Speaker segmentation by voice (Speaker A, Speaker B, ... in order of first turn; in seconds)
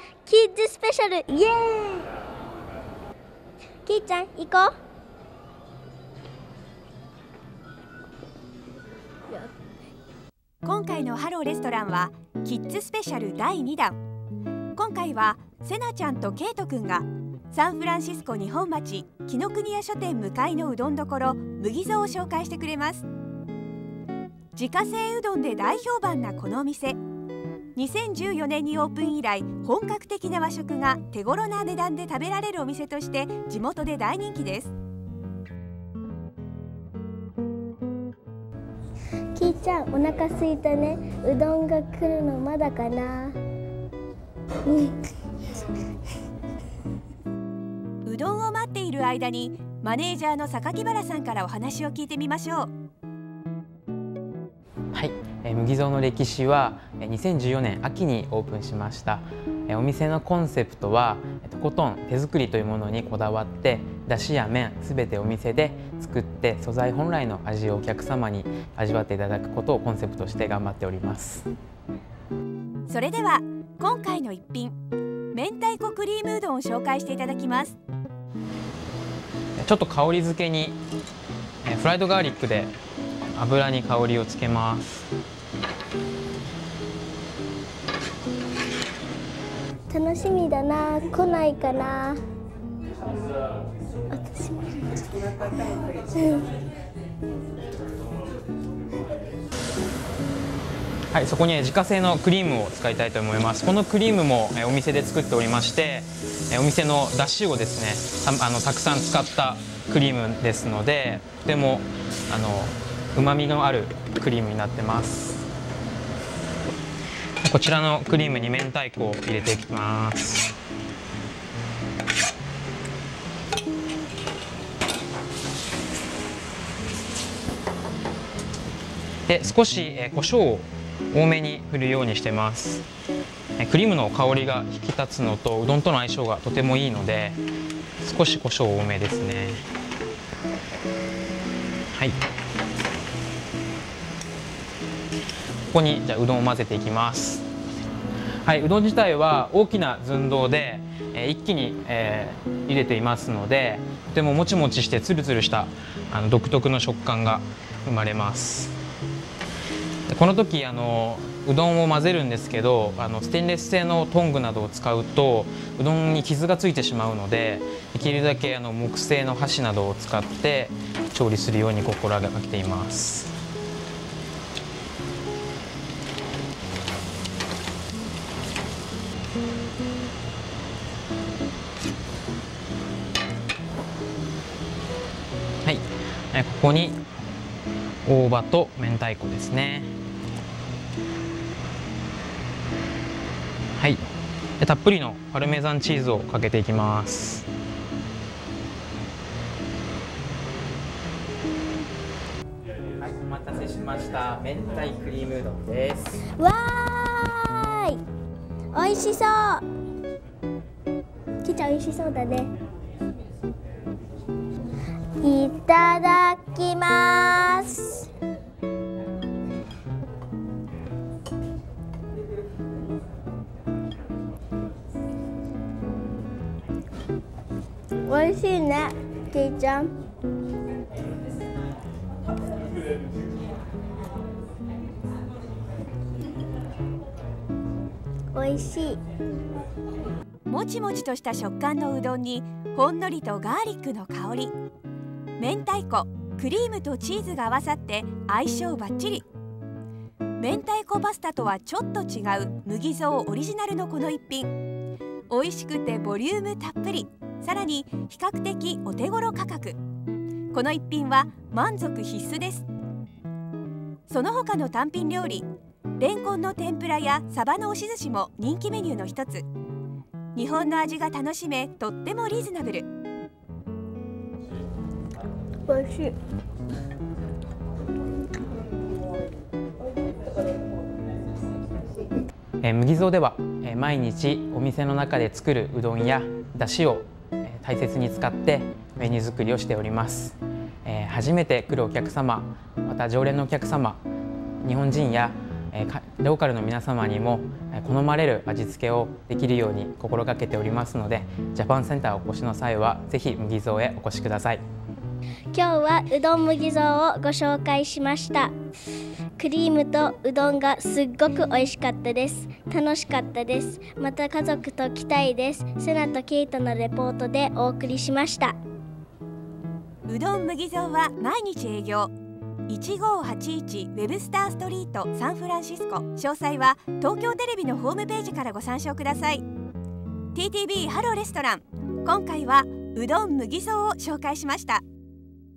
Speaker A: 0.2-2.1, 3.9-4.7, 39.3-43.4, 44.6-45.0, 89.9-92.2, 94.1-95.0, 96.1-96.4, 206.4-208.0, 208.7-209.6, 211.4-212.5, 215.2-218.1, 228.1-229.9, 238.3-239.0, 275.7-276.1, 305.5-308.5, 309.4-318.6
Speaker B: 10.6-14.0, 14.8-23.1, 24.5-27.0, 27.8-34.7, 48.0-52.7, 72.9-74.8, 75.3-77.8, 240.5-244.5, 245.4-249.2, 250.4-254.5, 255.3-259.8, 260.5-262.7, 264.1-265.5, 266.0-269.4, 270.3-272.9, 320.1-322.1, 322.7-329.4, 330.3-334.8
Speaker C: 54.9-71.5, 79.6-80.8, 81.6-82.7, 83.3-85.1, 101.1-115.5, 117.4-120.5, 129.3-132.8, 133.6-137.4, 138.0-139.7, 145.7-147.4, 148.4-158.8, 160.1-173.3, 185.6-187.0, 188.0-189.9, 193.8-194.0, 194.6-197.4, 203.0-206.2, 282.6-294.0, 294.6-304.6